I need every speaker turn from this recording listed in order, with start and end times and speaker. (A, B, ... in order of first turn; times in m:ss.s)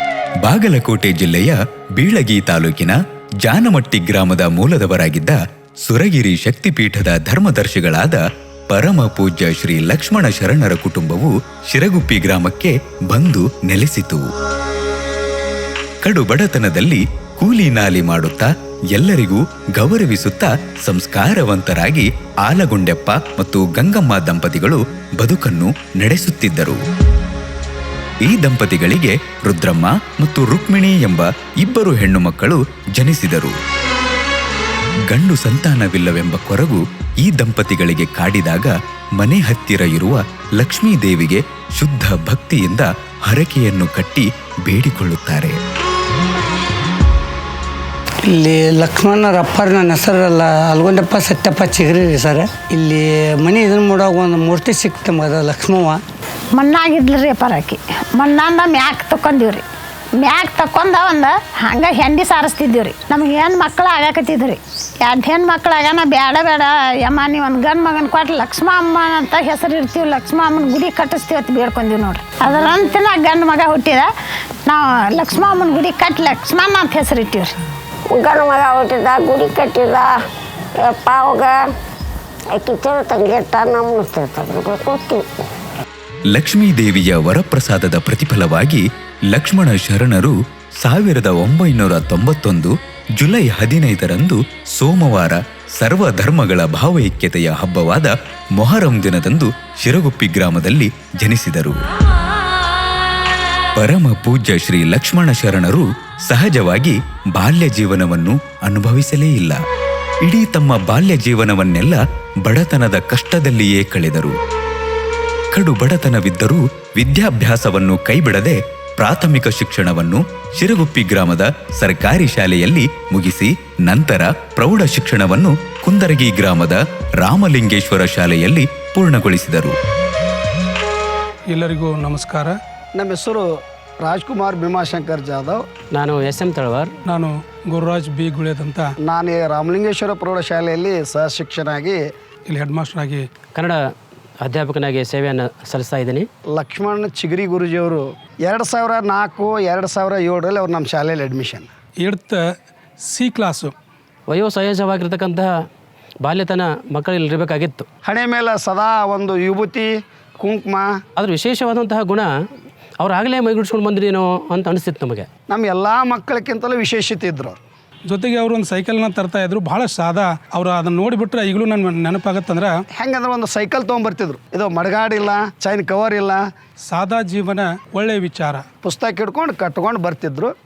0:00.4-0:14.3 A
0:16.0-0:26.8 A
0:28.2-0:33.5 A
0:35.1-0:45.6 A
0:48.3-0:56.0 B
0:56.5-0:59.6 C
1:00.2-1:14.1 C
1:14.6-1:17.5 C
1:18.2-1:20.1 D
1:20.8-1:21.5 D
1:22.6-1:25.2 D
1:26.3-1:41.8 A
1:43.8-1:49.6 A
1:50.2-1:54.4 A
1:55.5-2:09.7 A
2:11.5-2:12.6 E
2:12.9-2:13.5 F
2:14.0-2:15.6 F
2:15.9-2:16.9 G
2:17.1-2:18.9 E
2:19.0-2:22.0 F
2:22.5-2:23.2 E
2:24.4-2:26.2 G
2:26.5-2:31.7 F
2:32.0-2:33.7 E
2:34.3-2:35.5 G
2:36.2-2:37.8 G
2:38.0-2:40.9 F
2:41.2-2:42.3 G
2:43.0-2:45.3 G
2:45.5-2:47.6 F
2:48.1-2:52.7 E
2:53.0-2:56.4 F
2:56.9-2:58.6 E
2:58.8-3:00.5 F